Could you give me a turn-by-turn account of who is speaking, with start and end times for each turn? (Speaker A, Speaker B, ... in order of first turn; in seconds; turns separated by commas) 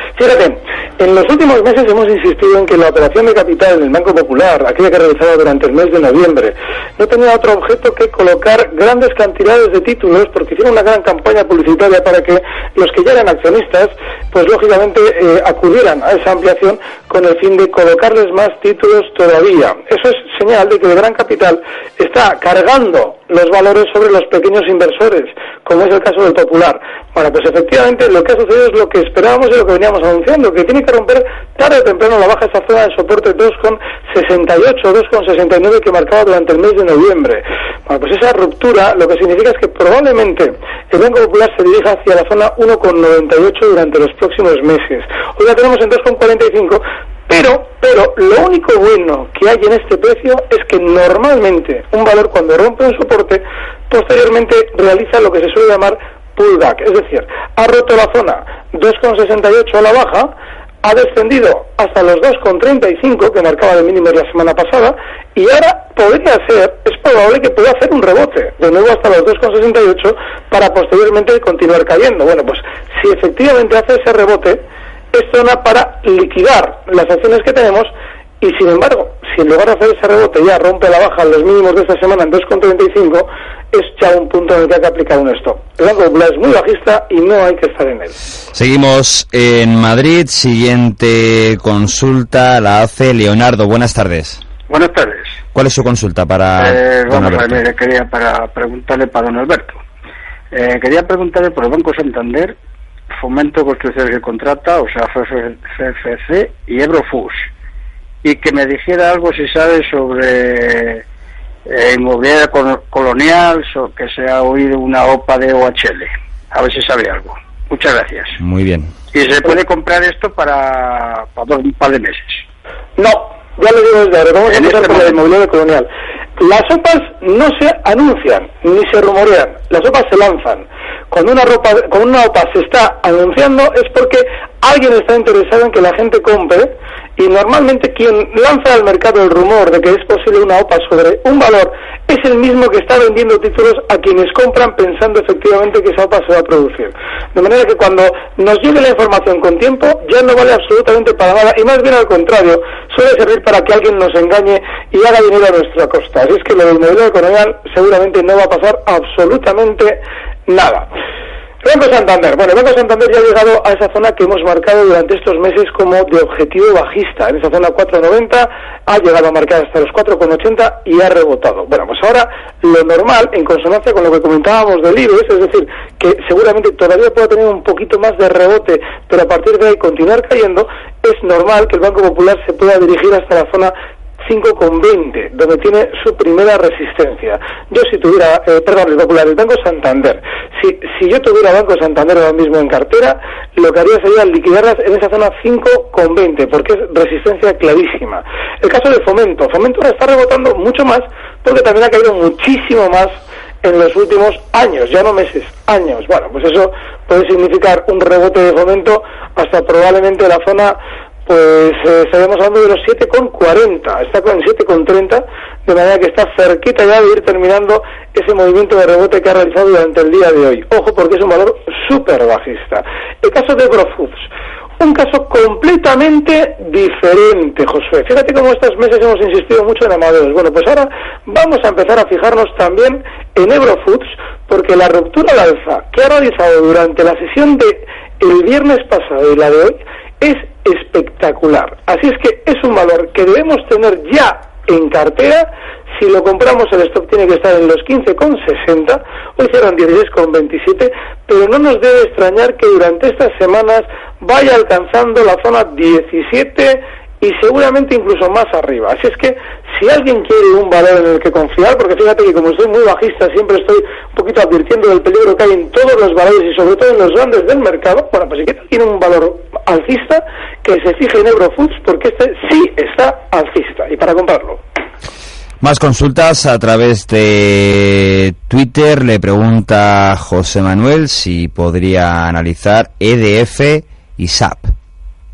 Speaker A: 0.2-77.9, Speaker A: 78.4-88.2, Speaker B: 88.5-94.4, Speaker C: 94.7-95.4, Speaker B: 95.5-97.6, Speaker C: 96.6-99.8, Speaker C: 100.5-102.6, Speaker C: 103.1-107.5, Speaker C: 108.2-111.0, Speaker C: 111.7-118.4, Speaker B: 118.4-118.9, Speaker C: 119.1-122.4, Speaker A: 123.0-160.9, Speaker C: 124.5-125.2, Speaker A: 161.6-224.3, Speaker A: 224.8-274.6, Speaker B: 275.6-284.7